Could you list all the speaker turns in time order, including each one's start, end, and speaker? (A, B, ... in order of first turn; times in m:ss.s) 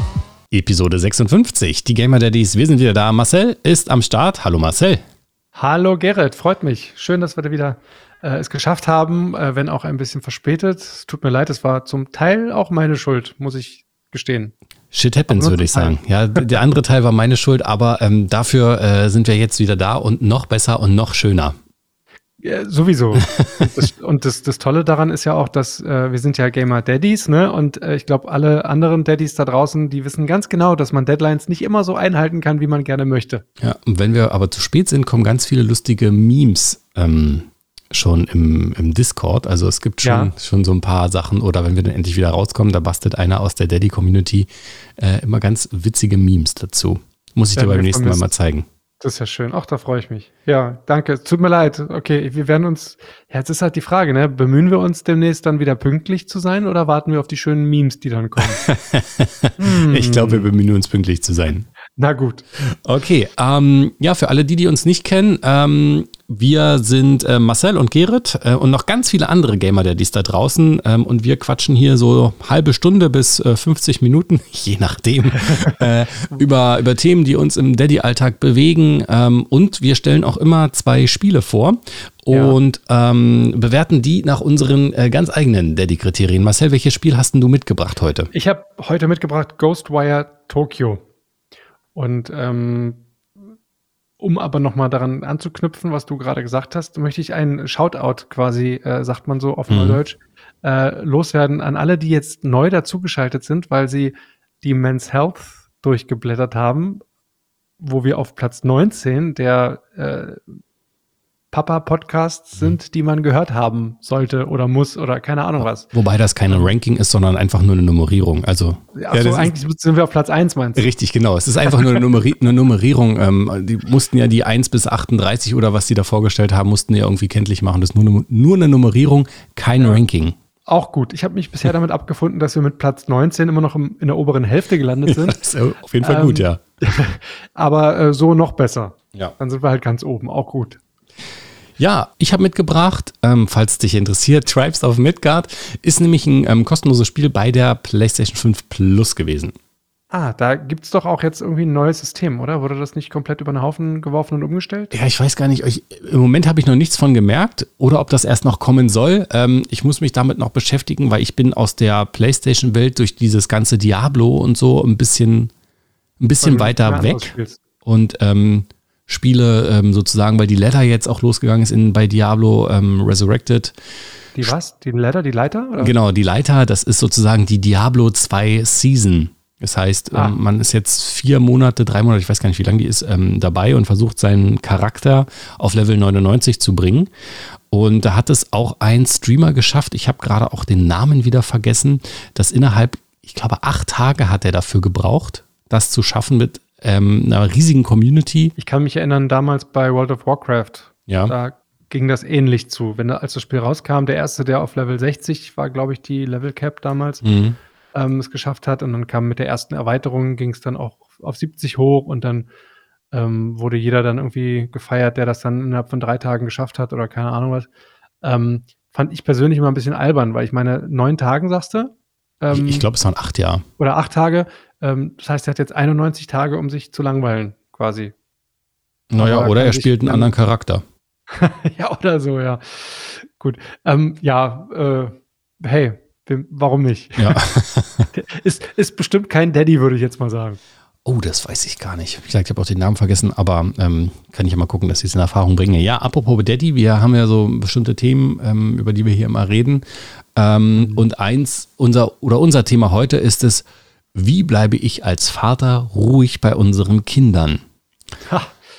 0:00.5-0:05.0 A
0:05.5-0:14.5 B
0:14.9-0:21.6 A
0:15.3-0:16.5 B
0:22.4-0:33.4 B
0:23.2-0:23.7 A
0:33.6-0:48.7 A
0:40.0-0:40.3 B
0:47.6-0:48.3 B
0:49.0-0:58.6 B
0:58.4-1:01.7 A
0:59.6-1:00.5 B
1:02.0-1:02.4 B
1:02.6-1:28.3 A
1:15.5-1:16.4 B
1:22.3-1:22.6 B
1:28.3-1:31.0 B
1:31.9-1:33.1 B
1:34.2-1:47.0 B
1:39.7-1:40.0 A
1:47.8-1:50.4 B
1:51.5-1:55.9 B
1:55.6-1:59.5 A
1:56.5-1:56.7 B
1:58.9-2:00.9 B
2:00.8-2:10.4 A
2:09.8-2:10.0 B
2:10.6-2:15.4 B
2:15.1-2:16.6 A
2:16.0-2:20.8 B
2:21.8-2:29.5 A
2:30.1-2:34.9 B
2:34.9-2:45.5 A
2:46.2-2:47.3 A
2:46.4-2:47.6 B
2:47.8-2:53.7 A
2:54.3-2:55.9 B
2:55.8-3:07.1 A
3:00.1-3:00.4 B
3:07.7-3:18.5 A
3:18.6-3:27.2 B
3:21.1-3:21.3 A
3:27.2-3:27.6 A
3:27.9-3:32.5 B
3:33.1-3:37.7 B
3:38.2-3:42.9 B
3:42.5-3:43.6 A
3:43.8-3:48.1 B
3:49.1-3:50.8 A
3:49.2-3:50.3 B
3:51.3-3:57.4 B
3:57.2-3:58.1 A
3:58.1-4:00.6 B
4:01.0-4:17.6 A
4:10.8-4:11.1 B
4:18.2-4:18.6 B